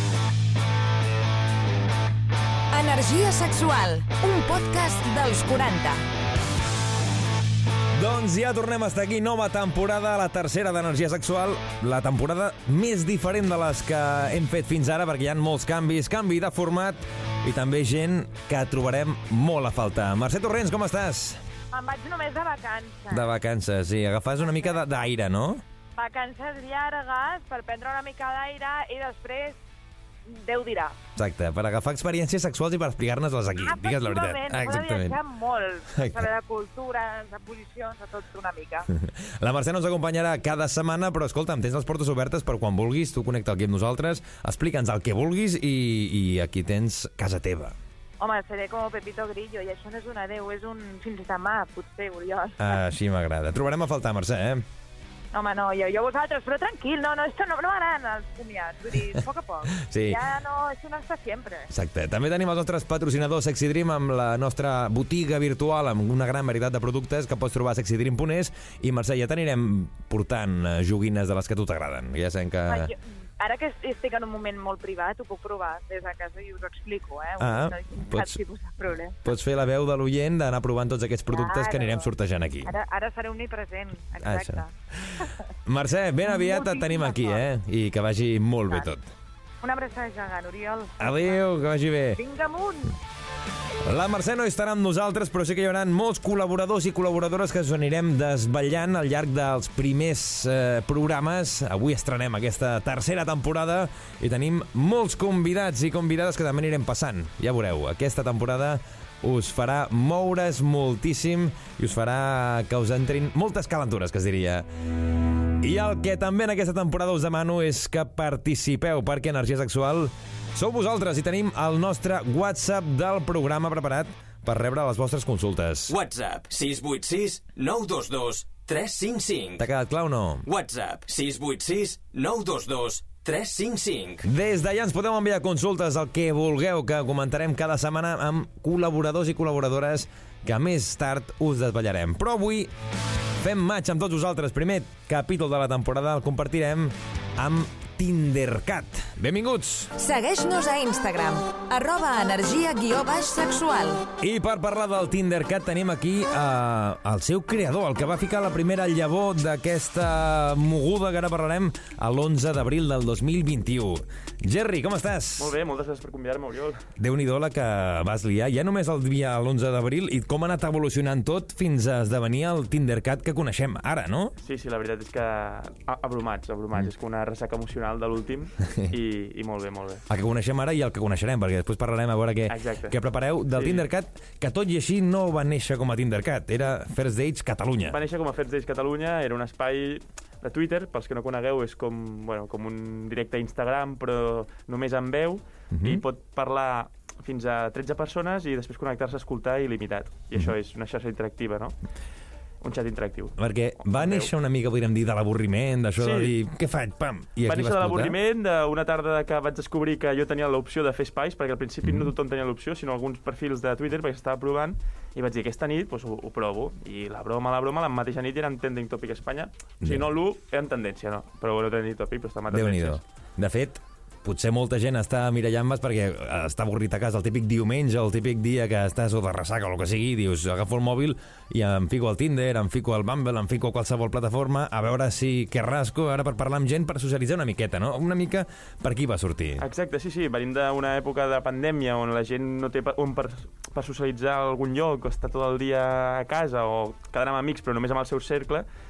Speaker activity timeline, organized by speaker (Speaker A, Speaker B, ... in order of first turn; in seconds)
Speaker A: 2.7-6.0, 150.0-154.1
Speaker B: 7.9-21.4, 23.1-25.6, 31.1-35.2, 35.9-36.3, 38.9-47.8, 52.6-54.6, 59.7-60.2, 61.7-72.9, 77.4-78.4, 79.2-82.7, 84.2-89.1, 91.0-92.2, 93.8-114.7, 115.6-126.0, 129.6-130.5, 134.2-142.7, 143.4-149.9, 154.2-165.5, 167.0-174.3, 180.1-188.0, 195.7-196.0, 203.4-208.2, 211.8-212.1, 219.8-220.1, 222.5-239.7
Speaker C: 21.7-23.2, 25.9-29.6, 30.3-31.0, 33.6-38.9, 48.2-52.7, 55.3-61.7, 72.7-79.2, 81.3-82.1, 82.6-85.4, 86.2-87.5, 89.6-91.5, 92.1-93.0
Speaker D: 125.9-129.6, 130.5-134.2
Speaker E: 165.4-166.8, 174.4-180.0, 182.5-183.0, 183.5-183.9, 187.9-201.7, 202.6-204.3, 206.0-206.3, 207.4-223.0, 239.6-248.7